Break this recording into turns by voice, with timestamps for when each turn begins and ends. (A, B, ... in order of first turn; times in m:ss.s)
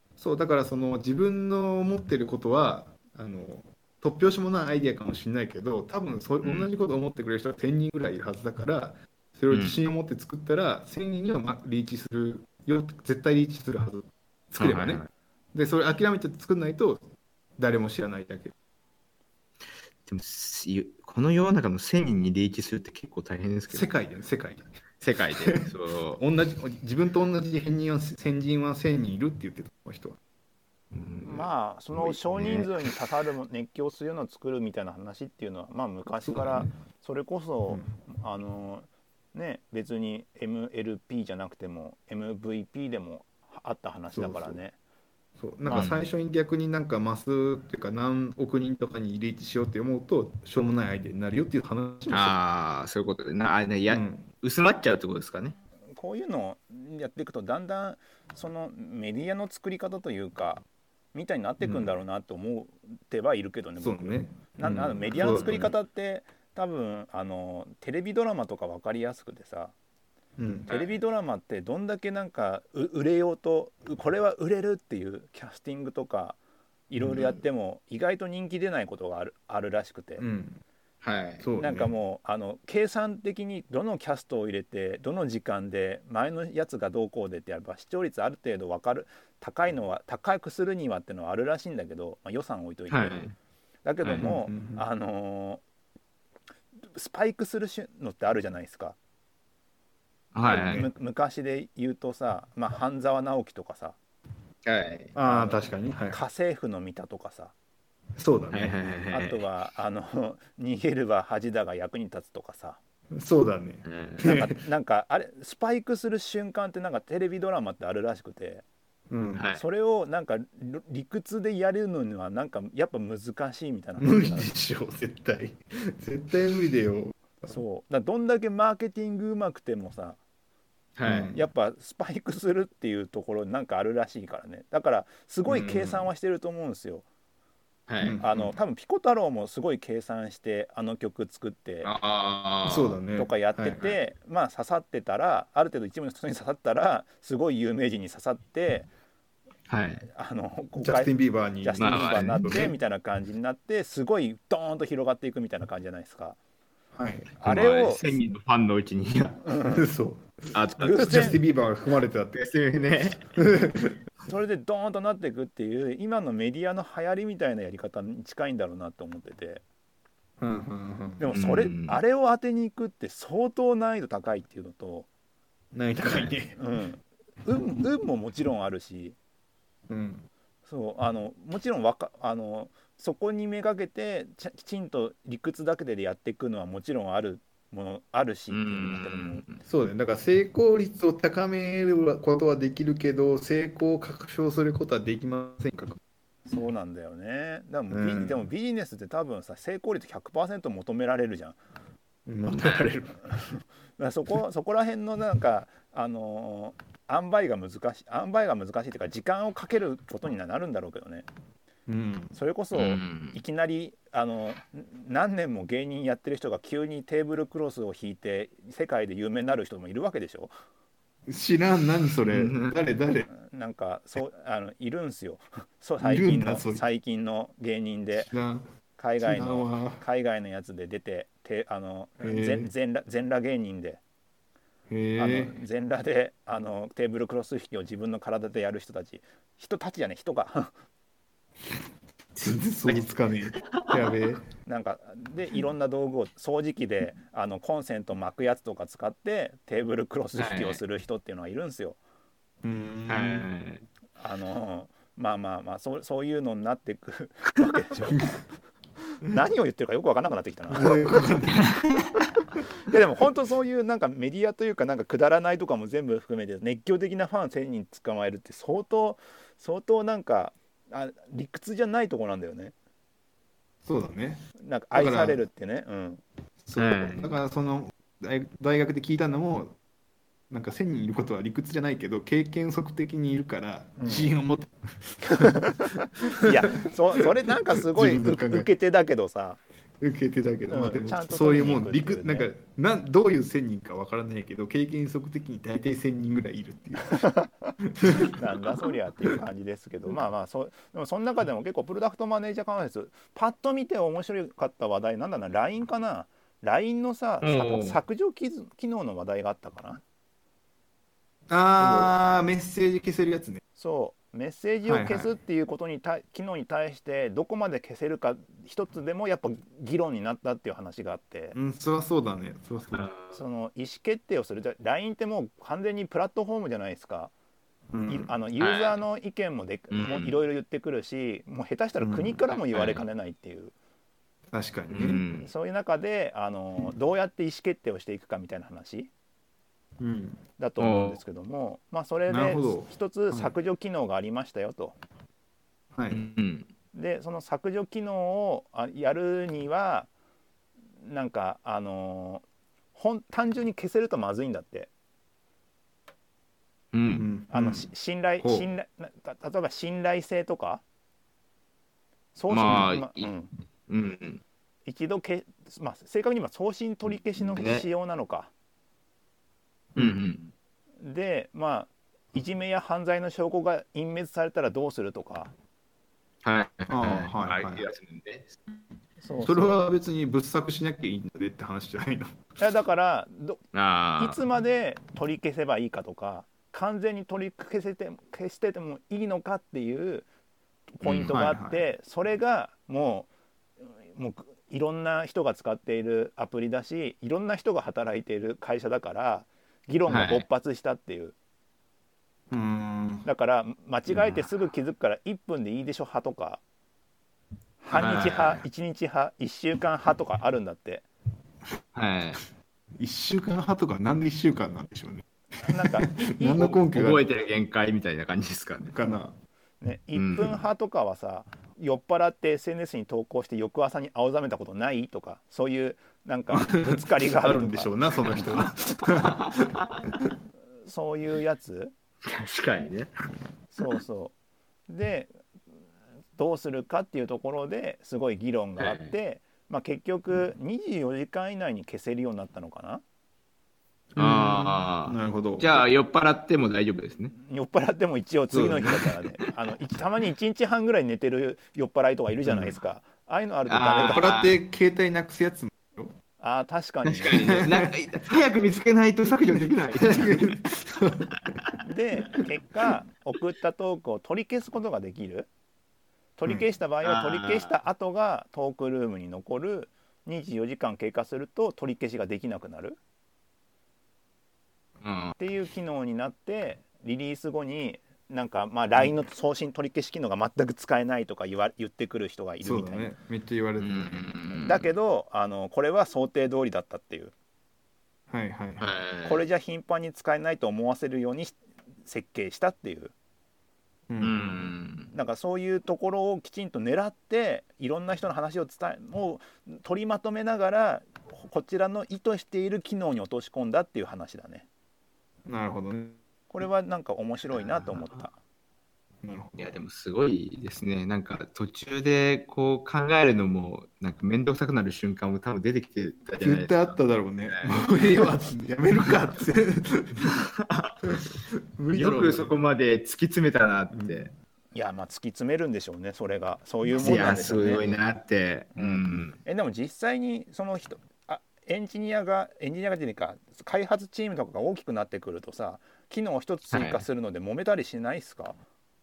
0:00.2-0:15.0 A
0:06.4-0:06.7 B
0:09.5-0:09.8 B
0:14.6-0:15.1 B
0:15.5-0:17.0 A
0:17.6-0:18.5 A
0:20.0-0:23.9 B
0:23.7-0:24.7 A
0:25.0-0:26.2 B
0:25.4-0:30.2 A
0:30.9-0:32.7 B
0:31.2-0:44.8 C
0:36.2-0:36.7 A
0:44.1-0:44.6 A
0:45.4-0:52.3 A
0:45.6-0:45.9 C
0:45.7-0:46.0 B
0:52.1-0:55.6 B
0:53.9-0:54.2 A
0:55.9-1:09.7 C
1:03.8-1:05.7 A
1:10.4-1:10.7 A
1:10.7-1:16.4 C
1:16.9-1:20.2 C
1:20.2-1:20.6 A
1:21.0-1:21.4 B
1:21.4-1:21.9 A
1:21.6-1:33.2 C
1:32.9-1:33.3 B
1:33.8-1:35.6 C
1:34.2-1:34.8 A
1:36.8-1:39.0 C
1:40.3-1:40.9 B
1:40.5-1:40.9 A
1:40.5-1:44.0 C
1:44.6-1:45.1 B
1:45.1-1:46.2 A
1:45.2-1:47.5 C
1:48.2-1:48.8 A
1:48.5-1:49.4 B
1:49.1-1:52.8 C
1:53.1-1:54.4 A
1:53.8-1:54.2 B
1:54.2-1:58.6 C
1:59.1-1:59.4 A
1:59.4-1:59.6 B
1:59.5-2:04.5 C
2:04.0-2:07.6 A
2:07.5-2:10.2 C
2:11.0-2:11.3 B
2:11.0-2:11.4 A
2:11.3-2:17.0 C
2:15.5-2:16.0 B
2:17.9-2:18.2 B
2:18.0-2:18.5 A
2:18.2-2:21.9 C
2:21.8-2:23.0 B
2:22.6-2:23.9 A
2:23.1-2:28.9 C
2:29.7-2:30.0 B
2:30.1-2:36.4 C
2:30.8-2:32.8 A
2:31.8-2:32.5 B
2:36.9-2:37.3 A
2:37.4-2:38.0 C
2:37.4-2:39.4 B
2:39.4-2:39.9 C
2:39.7-2:42.4 A
2:40.5-2:41.4 B
2:40.8-2:41.4 C
2:42.3-2:43.4 B
2:43.4-2:44.0 A
2:44.2-2:49.6 C
2:50.4-2:51.2 A
2:51.2-2:55.1 C
2:51.3-2:52.0 B
2:55.7-2:56.6 A
2:56.0-2:56.3 B
2:56.5-2:59.2 C
2:59.9-3:00.3 A
3:00.7-3:09.4 C
3:08.5-3:09.6 B
3:09.6-3:16.0 A
3:16.5-3:21.6 C
3:17.9-3:18.4 A
3:22.3-3:23.2 A
3:22.5-3:22.9 B
3:23.2-3:31.3 C
3:31.9-3:32.3 A
3:32.3-3:40.5 C
3:32.7-3:33.4 B
3:41.3-3:43.3 A
3:42.2-3:42.7 B
3:43.3-3:48.3 C
3:46.0-3:46.8 A
3:48.1-3:48.6 A
3:49.0-3:54.0 C
3:49.2-3:50.0 A
3:52.2-3:52.7 A
3:54.9-3:55.5 A
3:55.2-4:00.7 C
4:02.4-4:04.2 B
4:02.4-4:04.5 A
4:04.6-4:12.0 C
4:10.4-4:10.8 B
4:12.6-4:13.5 A
4:13.1-4:13.8 B
4:14.2-4:18.3 C
4:18.1-4:18.4 A
4:19.2-4:21.2 C
4:20.7-4:22.1 A
4:22.8-4:32.7 C
4:33.8-4:35.4 A
4:34.6-4:36.2 C
4:36.6-4:39.8 A
4:36.8-4:37.3 B
4:40.5-4:48.7 A
4:44.0-4:44.3 C
4:45.2-4:49.6 C
4:50.0-4:57.3 A
4:50.7-4:52.5 C
4:57.0-5:10.0 C
4:57.8-4:58.4 A
5:07.4-5:08.0 B
5:11.5-5:13.6 A
5:11.8-5:12.1 B
5:13.8-5:21.6 C
5:14.8-5:15.3 A
5:21.5-5:23.0 A
5:22.9-5:23.4 B
5:23.3-5:27.3 C
5:27.9-5:28.3 A
5:28.1-5:33.7 C
5:28.6-5:29.0 B
5:29.9-5:30.3 B
5:32.0-5:32.4 A
5:32.7-5:33.0 B
5:34.5-5:35.2 A
5:34.9-5:35.5 B
5:35.4-5:39.1 C
5:40.0-5:40.4 A
5:40.6-5:45.0 C
5:40.8-5:41.2 B
5:42.3-5:43.5 A
5:45.9-5:46.2 A
5:46.1-5:46.7 B
5:46.9-5:50.1 C
5:51.0-5:54.9 C
5:56.9-5:57.3 B
5:57.1-5:57.9 A
5:57.5-6:00.8 C
5:58.4-5:58.7 A
6:02.3-6:03.5 C
6:02.5-6:03.3 B
6:03.9-6:04.4 B
6:04.9-6:08.5 C
6:07.6-6:07.9 B
6:10.0-6:10.5 B
6:11.0-6:15.5 C
6:16.4-6:18.5 B
6:16.9-6:17.9 A
6:19.2-6:19.8 C
6:19.4-6:22.4 A
6:22.6-6:23.6 C
6:23.7-6:24.4 B
6:24.2-6:30.2 C
6:31.0-6:33.3 C
6:31.0-6:31.3 B
6:31.3-6:31.8 A
6:33.8-6:41.3 C
6:40.1-6:40.4 B
6:42.5-6:43.3 A
6:43.2-6:46.6 C
6:47.8-6:51.0 C
6:47.9-6:48.6 B
6:51.9-6:52.4 B
6:53.0-6:57.2 A
6:55.6-6:56.8 C
6:56.6-6:58.9 B
6:58.9-6:59.3 A
6:59.8-7:07.9 C
7:00.1-7:00.6 B
7:06.5-7:09.7 A
7:09.2-7:10.0 B
7:10.8-7:11.9 C
7:12.2-7:13.1 B
7:13.7-7:14.3 C
7:14.9-7:15.3 C
7:16.4-7:23.0 C
7:18.8-7:19.1 B
7:24.1-7:25.9 A
7:24.2-7:27.3 B
7:27.4-7:34.4 C
7:32.4-7:32.7 A
7:33.7-7:34.5 B
7:34.1-7:36.1 A
7:36.4-7:37.6 C
7:37.1-7:40.6 B
7:37.2-7:37.9 A
7:40.0-7:41.4 A
7:41.8-7:45.5 C
7:46.4-7:53.0 C
7:47.0-7:47.7 B
7:55.0-7:55.4 B
7:55.4-8:03.1 C
8:02.6-8:04.3 A
8:03.8-8:04.9 B
8:04.6-8:07.3 C
8:08.3-8:08.8 A
8:08.8-8:09.4 B
8:09.2-8:13.1 C
8:14.1-8:14.7 A
8:14.2-8:15.1 B
8:15.1-8:24.6 C
8:25.5-8:26.2 A
8:26.5-8:28.3 C
8:29.2-8:29.7 A
8:29.6-8:38.3 B
8:36.4-8:40.3 A
8:40.2-8:41.0 B
8:41.1-8:42.5 A
8:41.9-8:44.3 B
8:43.9-8:44.3 A
8:44.7-8:48.0 C
8:46.8-8:48.0 A
8:47.0-8:49.4 B
8:48.8-8:58.6 C
8:56.7-8:57.0 B